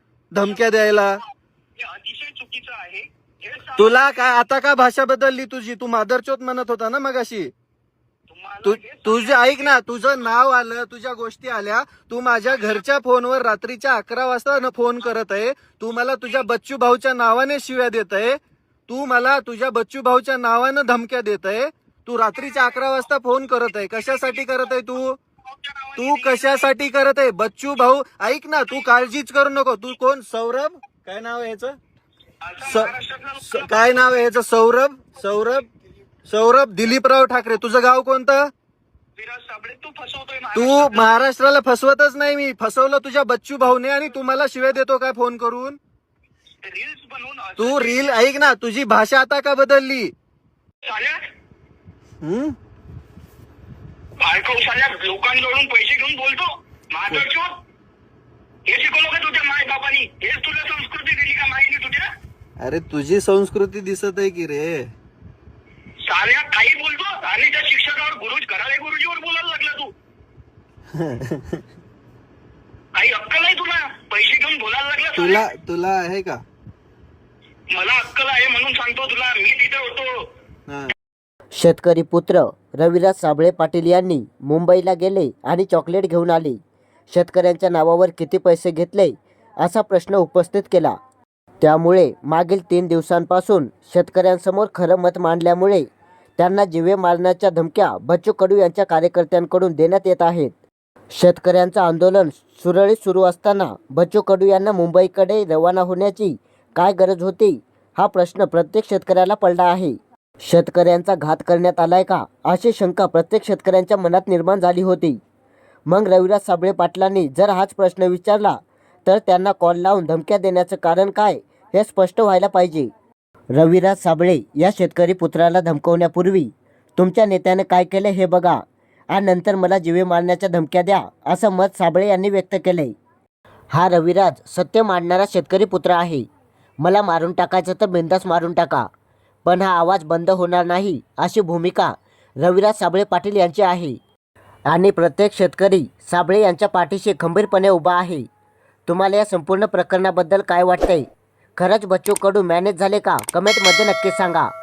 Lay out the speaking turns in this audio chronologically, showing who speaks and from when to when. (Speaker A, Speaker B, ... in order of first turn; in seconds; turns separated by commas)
Speaker A: 0.3-1.2, Speaker B: 0.4-1.1, Speaker B: 1.8-4.0, Speaker A: 3.8-7.5, Speaker B: 8.3-9.8, Speaker A: 8.6-25.2, Speaker B: 12.5-12.8, Speaker B: 22.4-22.8, Speaker B: 24.0-24.9, Speaker B: 25.5-26.7, Speaker A: 26.0-31.8, Speaker B: 32.4-33.9, Speaker A: 32.6-35.7, Speaker A: 36.3-38.5, Speaker B: 39.2-41.1, Speaker A: 40.5-45.8, Speaker B: 46.6-48.1, Speaker A: 47.6-50.1, Speaker B: 50.8-51.3, Speaker A: 52.2-52.5, Speaker B: 54.2-57.6, Speaker B: 58.6-62.1, Speaker A: 62.6-64.9, Speaker B: 66.0-69.9, Speaker A: 70.9-71.6, Speaker B: 72.9-75.4, Speaker A: 75.2-76.4, Speaker B: 77.7-80.3, Speaker A: 80.7-80.9, Speaker C: 81.5-86.6, Speaker C: 87.1-91.0, Speaker C: 91.6-95.8, Speaker C: 96.4-100.5, Speaker C: 101.1-115.2, Speaker C: 115.9-122.9, Speaker C: 123.5-128.6, Speaker C: 129.1-132.9, Speaker C: 133.7-136.2, Speaker C: 136.8-138.9, Speaker C: 139.4-144.0, Speaker C: 144.7-148.2, Speaker C: 148.9-154.5